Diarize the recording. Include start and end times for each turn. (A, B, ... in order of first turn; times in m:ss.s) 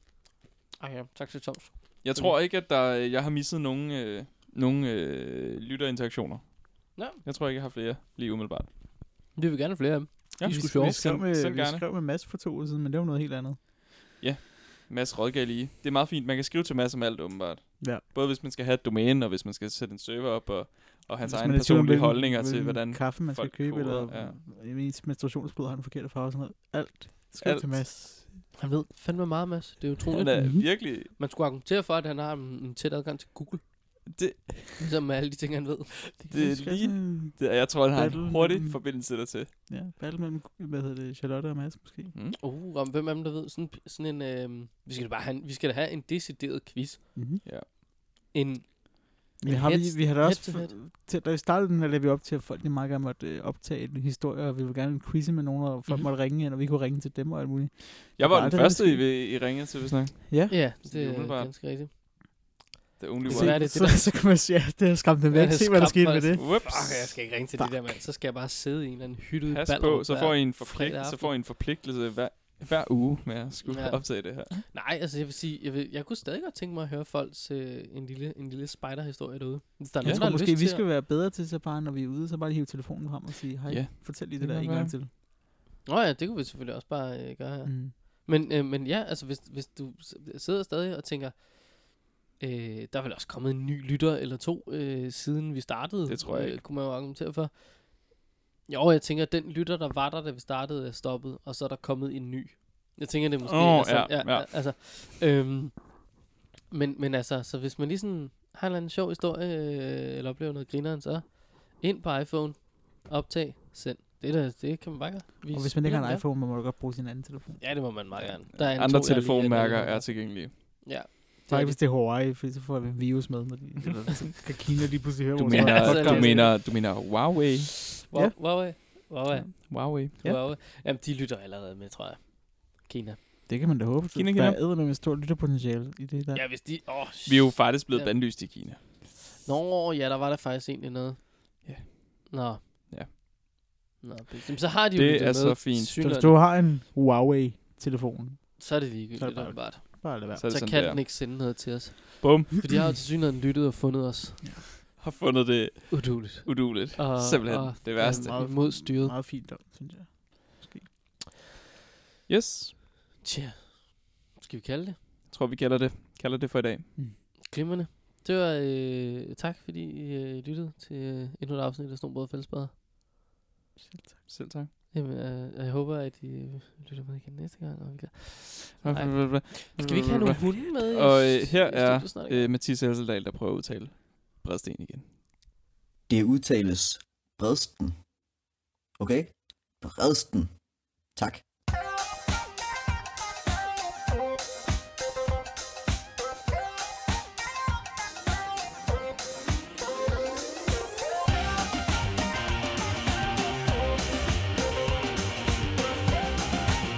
0:00.8-0:02.4 A
0:02.0-0:08.7 B
0:07.0-0:07.2 A
0:09.4-0:11.1 A
0:10.4-0:11.8 B
0:10.5-0:13.6 C
0:14.2-0:24.4 B
0:21.2-0:28.3 C
0:27.4-0:28.1 B
0:28.6-0:33.6 A
0:30.1-0:31.1 B
0:30.3-0:30.7 C
0:34.1-0:34.9 B
0:34.8-0:36.0 A
0:36.2-0:39.5 B
0:36.2-0:42.1 C
0:42.4-0:47.5 A
0:47.2-0:47.4 C
0:48.3-0:50.8 A
0:49.4-0:59.1 C
0:58.2-1:01.5 B
1:00.3-1:00.5 C
1:00.5-1:01.9 A
1:03.0-1:03.6 B
1:03.3-1:06.4 C
1:03.3-1:04.3 A
1:05.3-1:11.3 A
1:06.4-1:07.2 B
1:07.6-1:08.0 C
1:09.5-1:14.6 B
1:13.6-1:20.8 A
1:20.0-1:25.1 C
1:23.7-1:24.9 B
1:25.8-1:31.9 A
1:27.6-1:27.9 C
1:32.4-1:38.0 A
1:36.1-1:36.6 B
1:38.7-1:45.9 A
1:43.4-1:44.5 B
1:46.7-1:56.2 A
1:55.5-1:57.8 C
1:57.6-2:01.8 A
1:58.1-2:00.5 B
2:01.5-2:06.5 C
2:05.4-2:07.8 B
2:05.5-2:07.0 A
2:08.0-2:13.2 A
2:09.3-2:10.2 B
2:13.5-2:16.4 C
2:14.1-2:14.6 B
2:16.3-2:18.5 A
2:17.3-2:18.8 B
2:19.3-2:21.6 A
2:21.6-2:22.3 B
2:22.3-2:22.6 A
2:24.0-2:26.4 A
2:24.9-2:25.9 B
2:26.0-2:30.4 C
2:28.6-2:34.6 A
2:30.3-2:31.6 B
2:32.2-2:32.6 B
2:35.0-2:38.5 B
2:35.9-2:39.2 A
2:38.0-2:40.9 C
2:42.3-2:42.8 B
2:43.2-2:45.0 A
2:45.3-2:46.9 B
2:47.4-2:52.7 A
2:53.8-2:54.3 C
2:54.3-2:54.7 B
2:54.9-3:02.5 A
2:58.8-3:05.1 B
3:06.1-3:08.1 D
3:09.0-3:11.4 D